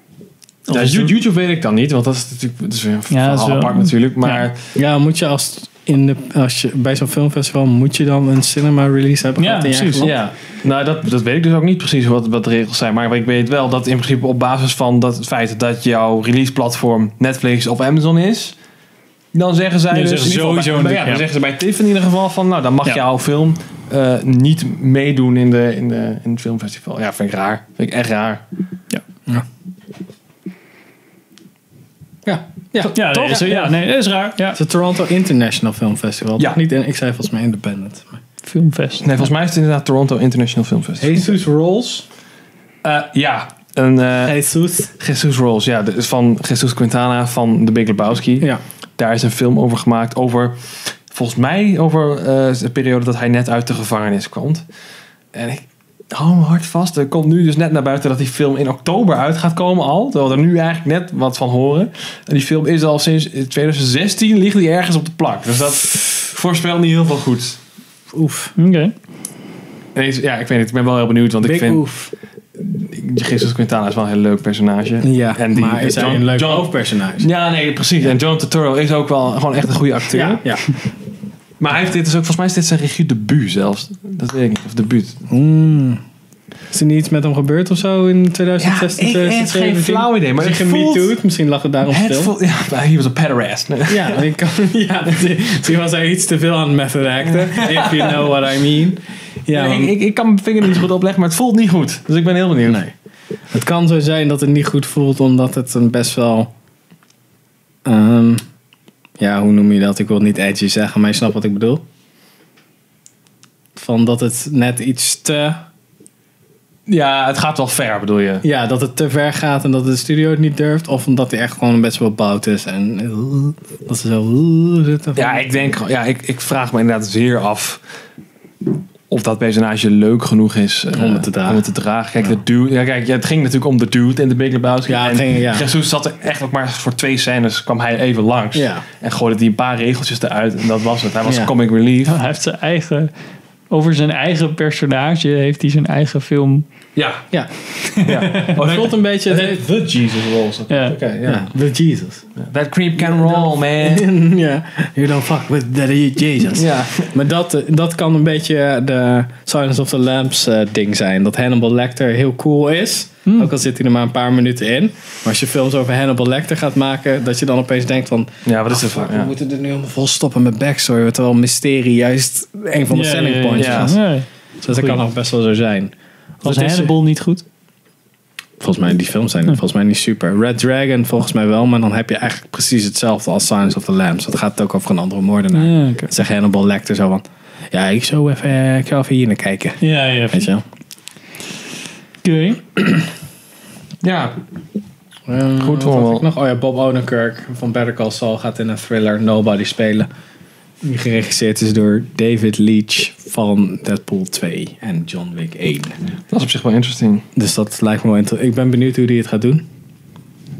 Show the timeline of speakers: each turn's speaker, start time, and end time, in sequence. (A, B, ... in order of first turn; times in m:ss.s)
0:00.7-0:01.1 A
0:00.7-0:04.6 B
0:03.1-0:04.4 A
0:04.8-0:10.1 C
0:09.4-0:10.1 A
0:10.0-0:18.5 B
0:19.3-0:28.4 B
0:19.9-0:21.2 A
0:32.2-0:33.8 C
0:32.9-0:34.6 A
0:34.5-0:38.2 C
0:38.4-0:39.1 A
0:39.0-0:41.2 B
0:41.0-0:42.1 C
0:42.8-0:44.4 B
0:44.2-0:44.9 C
0:45.0-0:50.6 B
0:51.1-0:54.6 B
0:55.3-1:07.6 B
1:08.1-1:08.5 C
1:08.6-1:08.9 A
1:09.9-1:11.8 B
1:11.4-1:12.1 C
1:12.6-1:20.4 B
1:15.0-1:17.3 C
1:20.1-1:20.8 C
1:21.6-1:25.2 B
1:25.3-1:26.0 C
1:26.7-1:32.3 C
1:28.6-1:31.1 B
1:31.9-1:34.2 B
1:33.9-1:40.0 C
1:37.4-1:38.3 B
1:39.5-1:42.8 B
1:42.6-1:42.9 C
1:43.5-1:46.5 C
1:47.8-1:48.4 C
1:49.2-1:51.8 C
1:53.8-1:55.6 C
1:56.9-1:58.4 B
1:58.4-2:05.4 C
2:05.2-2:07.8 B
2:09.1-2:22.1 B
2:10.9-2:11.6 C
2:14.8-2:15.7 C
2:18.5-2:18.8 C
2:21.2-2:21.5 C
2:22.0-2:23.1 A
2:23.7-2:26.6 A
2:27.0-2:27.2 B
2:27.9-2:28.5 A
2:28.0-2:31.5 B
2:28.6-2:29.6 C
2:30.7-2:31.0 A
2:31.2-2:32.2 C
2:32.4-2:34.1 B
2:33.0-2:54.0 C
2:36.5-2:37.1 B
2:43.2-2:43.5 A
2:48.4-2:49.3 B
2:52.9-2:55.0 A
2:53.6-2:53.9 B
2:54.6-2:56.9 C
2:56.4-2:57.4 A
2:58.6-3:10.6 C
3:05.5-3:06.1 A
3:09.8-3:10.5 A
3:12.2-3:12.7 A
3:14.0-3:14.4 B
3:15.3-3:20.1 C
3:15.6-3:16.2 B
3:20.8-3:26.0 C
3:26.3-3:27.2 B
3:27.3-3:29.6 C